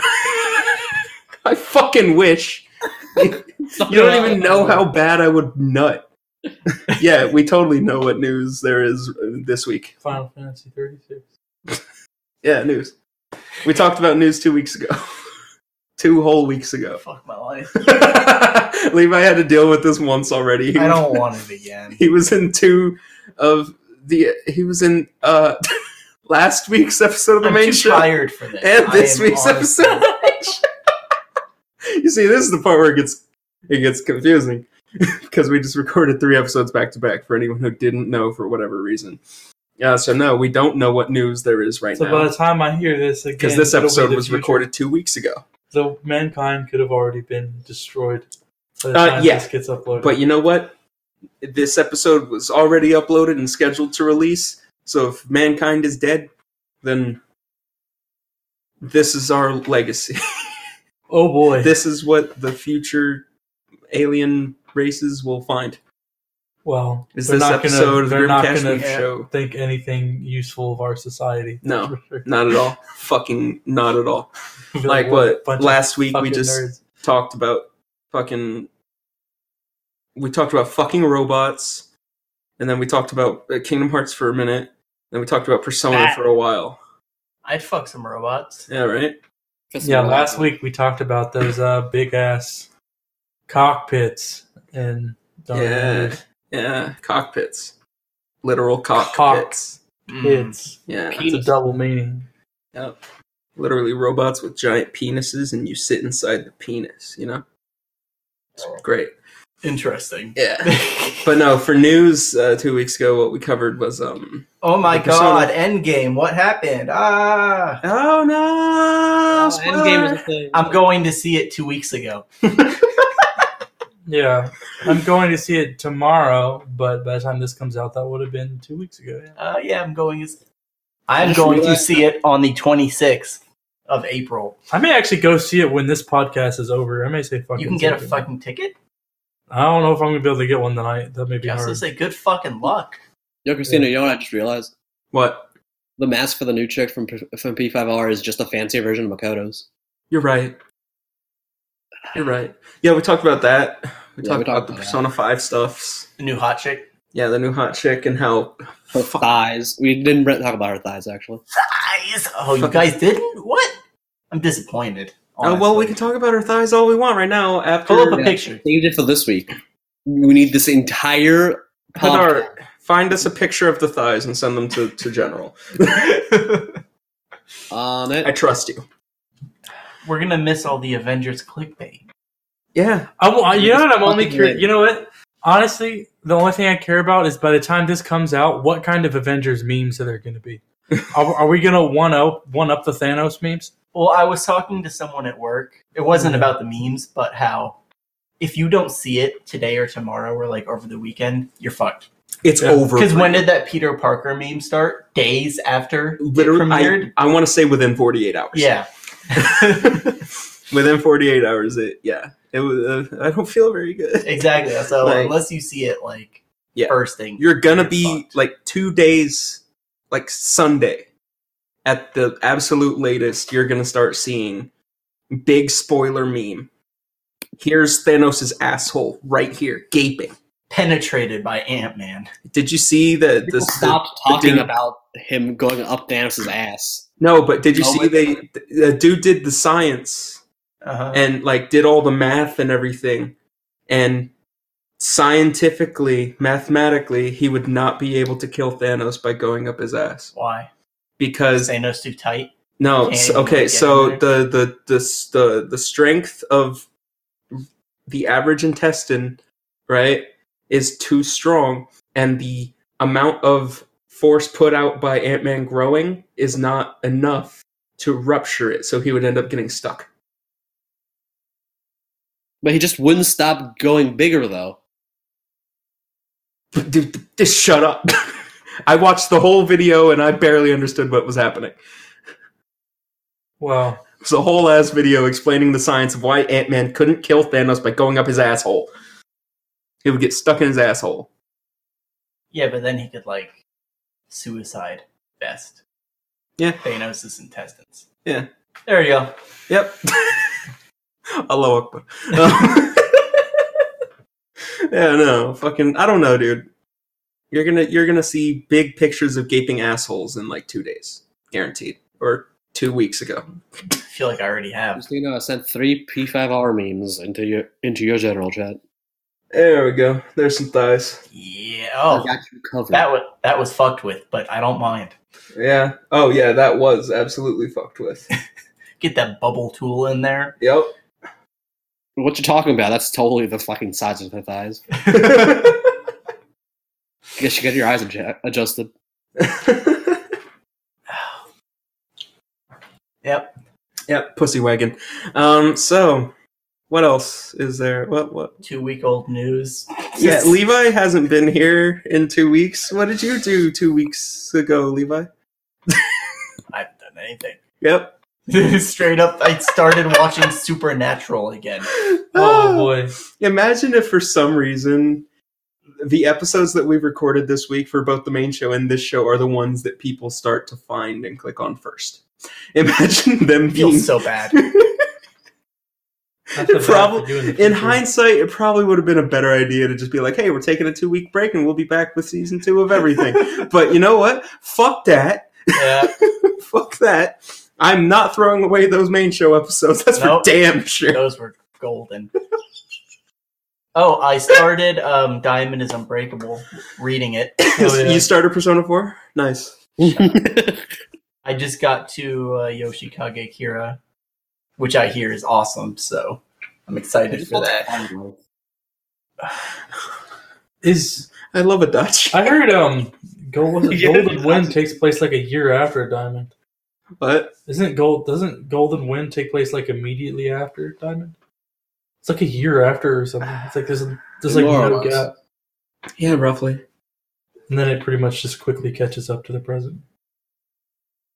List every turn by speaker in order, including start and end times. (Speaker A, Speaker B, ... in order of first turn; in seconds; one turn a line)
Speaker A: 0.1-6.0
Speaker B: 3.7-4.5
Speaker C: 3.9-4.8
Speaker A: 6.7-9.9
Speaker C: 10.0-11.3
Speaker A: 12.4-12.9
Speaker A: 13.6-15.2
Speaker A: 16.0-17.0
Speaker D: 17.0-18.0
Speaker A: 17.7-21.2
Speaker D: 20.7-22.0
Speaker A: 21.9-25.6
Speaker A: 26.2-30.6
Speaker D: 27.4-30.3
Speaker A: 31.9-39.2
Speaker A: 39.8-42.3
Speaker C: 42.0-44.7
Speaker A: 43.4-45.4
Speaker C: 45.7-50.1
Speaker A: 48.9-50.8
Speaker A: 51.4-56.3
Speaker A: 56.8-57.2
Speaker A: 58.8-60.7
Speaker C: 61.1-61.7
Speaker A: 61.5-63.2
Speaker A: 63.9-65.8
Speaker C: 66.6-72.3
Speaker A: 67.1-69.3
Speaker D: 68.7-69.1
Speaker A: 71.6-74.3
Speaker C: 74.7-76.8
Speaker A: 74.8-78.7
Speaker A: 80.1-81.9
Speaker A: 82.6-86.8
Speaker D: 87.4-88.7
Speaker A: 88.7-89.2
Speaker B: 89.7-90.5
Speaker C: 89.8-92.7
Speaker C: 93.5-96.2
Speaker A: 95.5-97.7
Speaker A: 98.4-99.8
Speaker C: 99.0-99.7
Speaker D: 100.1-100.5
Speaker C: 100.2-102.3
Speaker A: 100.9-101.3
Speaker B: 101.1-101.5
Speaker A: 102.7-103.0
Speaker A: 103.5-107.4
Speaker A: 108.6-109.1
Speaker D: 109.6-111.3
Speaker A: 110.3-115.5
Speaker D: 114.6-117.8
Speaker A: 117.8-120.2
Speaker B: 119.3-120.8
Speaker D: 120.5-122.3
Speaker C: 124.1-129.3
Speaker D: 129.4-130.4
Speaker D: 131.1-134.6
Speaker B: 131.2-132.0
Speaker C: 134.7-138.3
Speaker D: 137.6-138.7
Speaker C: 139.5-141.8
Speaker D: 141.4-143.0
Speaker B: 143.4-144.7
Speaker A: 145.1-145.5
Speaker B: 146.0-149.7
Speaker A: 150.1-150.6
Speaker A: 152.1-156.1
Speaker B: 154.2-155.0
Speaker D: 156.2-156.9
Speaker A: 157.1-159.3
Speaker B: 158.9-161.4
Speaker D: 161.6-163.8
Speaker A: 162.6-162.9
Speaker D: 164.3-166.0
Speaker A: 165.4-168.3
Speaker D: 167.9-168.6
Speaker B: 168.1-169.5
Speaker B: 170.1-172.5
Speaker A: 171.9-176.1
Speaker D: 175.9-176.8
Speaker B: 177.7-178.3
Speaker A: 178.2-178.8
Speaker D: 180.0-182.0
Speaker A: 182.7-183.1
Speaker C: 183.2-193.7
Speaker B: 183.5-184.7
Speaker D: 193.9-197.8
Speaker C: 196.1-196.5
Speaker D: 198.4-202.1
Speaker A: 202.4-203.4
Speaker D: 202.9-207.1
Speaker A: 206.2-208.7
Speaker D: 208.5-210.1
Speaker A: 209.3-210.2
Speaker A: 210.7-215.3
Speaker D: 214.2-218.4
Speaker A: 216.7-221.1
Speaker A: 221.8-224.7
Speaker A: 225.3-226.7
Speaker A: 227.6-230.3
Speaker D: 230.7-232.3
Speaker A: 232.5-234.7
Speaker B: 233.5-237.1
Speaker A: 237.2-240.4
Speaker B: 237.7-238.4
Speaker D: 240.8-241.3
Speaker A: 241.1-243.3
Speaker A: 243.9-244.3
Speaker A: 245.0-250.3
Speaker D: 250.3-250.7
Speaker A: 251.2-251.7
Speaker D: 251.5-252.5
Speaker A: 252.8-256.9
Speaker D: 253.0-254.2
Speaker A: 257.5-270.1
Speaker B: 272.6-274.8
Speaker A: 276.7-281.8
Speaker C: 283.6-284.0
Speaker A: 284.2-288.9
Speaker A: 290.0-291.3
Speaker D: 292.5-293.6
Speaker D: 294.3-295.8
Speaker D: 296.8-298.1
Speaker D: 298.9-299.3
Speaker A: 299.7-300.6
Speaker A: 301.4-303.2
Speaker D: 302.4-302.9
Speaker A: 304.9-306.7
Speaker A: 307.5-313.4
Speaker D: 314.1-315.0
Speaker B: 314.9-318.8
Speaker A: 319.5-321.2
Speaker D: 321.3-322.3
Speaker B: 322.1-323.1
Speaker D: 322.9-325.1
Speaker A: 325.5-328.3
Speaker D: 329.0-330.6
Speaker A: 330.6-330.9
Speaker B: 332.2-334.9
Speaker D: 335.0-335.8
Speaker A: 335.1-335.8
Speaker B: 337.4-338.9
Speaker A: 339.4-340.2
Speaker D: 341.1-341.4
Speaker D: 343.2-343.6
Speaker A: 344.1-346.3
Speaker A: 346.9-348.5
Speaker D: 348.6-350.6
Speaker A: 350.1-355.3
Speaker A: 355.9-356.3
Speaker D: 356.7-357.6
Speaker A: 357.8-358.1
Speaker D: 358.5-361.9
Speaker A: 361.9-365.2
Speaker C: 362.3-363.1
Speaker A: 366.0-372.2
Speaker A: 372.7-375.0
Speaker D: 373.7-374.6
Speaker C: 376.5-378.0
Speaker A: 376.6-391.2
Speaker D: 385.7-386.1
Speaker D: 390.1-392.3
Speaker D: 393.9-397.6
Speaker A: 397.6-399.8
Speaker C: 397.7-398.2
Speaker B: 400.0-400.8
Speaker D: 401.4-404.0
Speaker D: 404.8-408.1
Speaker B: 407.3-408.4
Speaker C: 410.8-411.3
Speaker A: 411.4-412.6
Speaker C: 412.3-416.5
Speaker A: 413.9-414.7
Speaker A: 417.2-417.6
Speaker C: 417.6-421.3
Speaker C: 422.2-425.3
Speaker B: 424.4-425.2
Speaker A: 426.2-426.8
Speaker C: 427.7-430.0